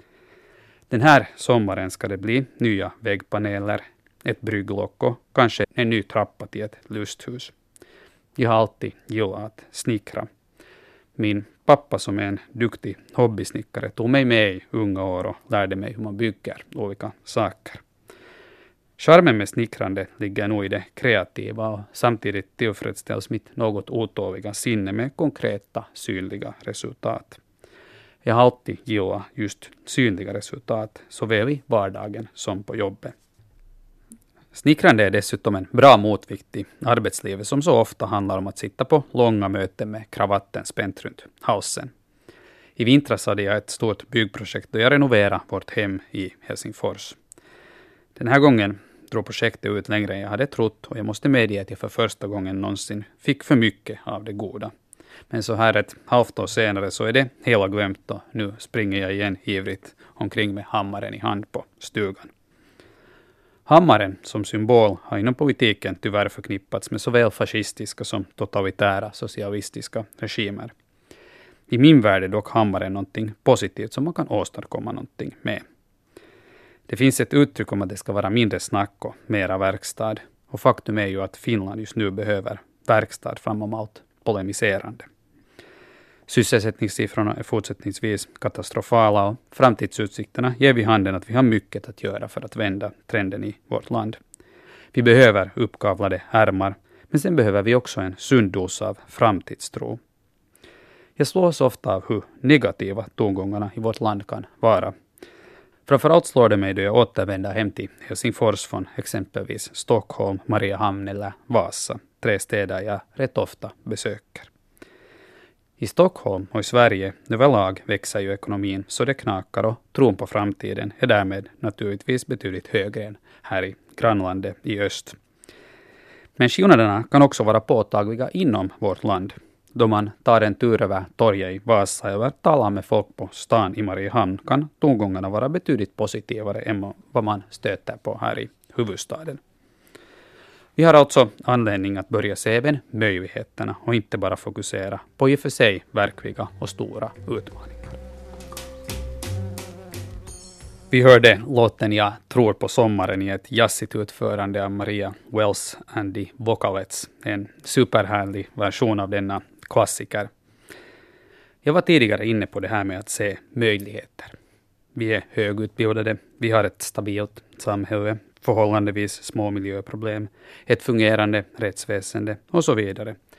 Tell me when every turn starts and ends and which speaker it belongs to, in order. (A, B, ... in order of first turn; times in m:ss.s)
0:00.9-0:07.5 A
0:08.4-0:10.3 A
0:11.2-0:17.8 A
0:19.0-0:27.4 A
0:28.2-0:33.1 A
0:34.5-0:41.9 A
0:42.8-0:47.2 A
0:48.2-0:54.7 A
0:55.3-1:02.3 A
1:03.7-1:10.7 A
1:11.7-1:15.6 A
1:16.9-1:25.1 A
1:26.3-1:34.2 A
1:34.9-1:40.0 A
1:41.2-1:44.9 A
1:45.8-1:54.5 A
1:55.8-2:05.2 A
2:06.4-2:19.4 A
2:20.8-2:28.0 A
2:30.9-2:40.3 A
2:41.6-2:44.3 A
2:44.9-2:53.2 A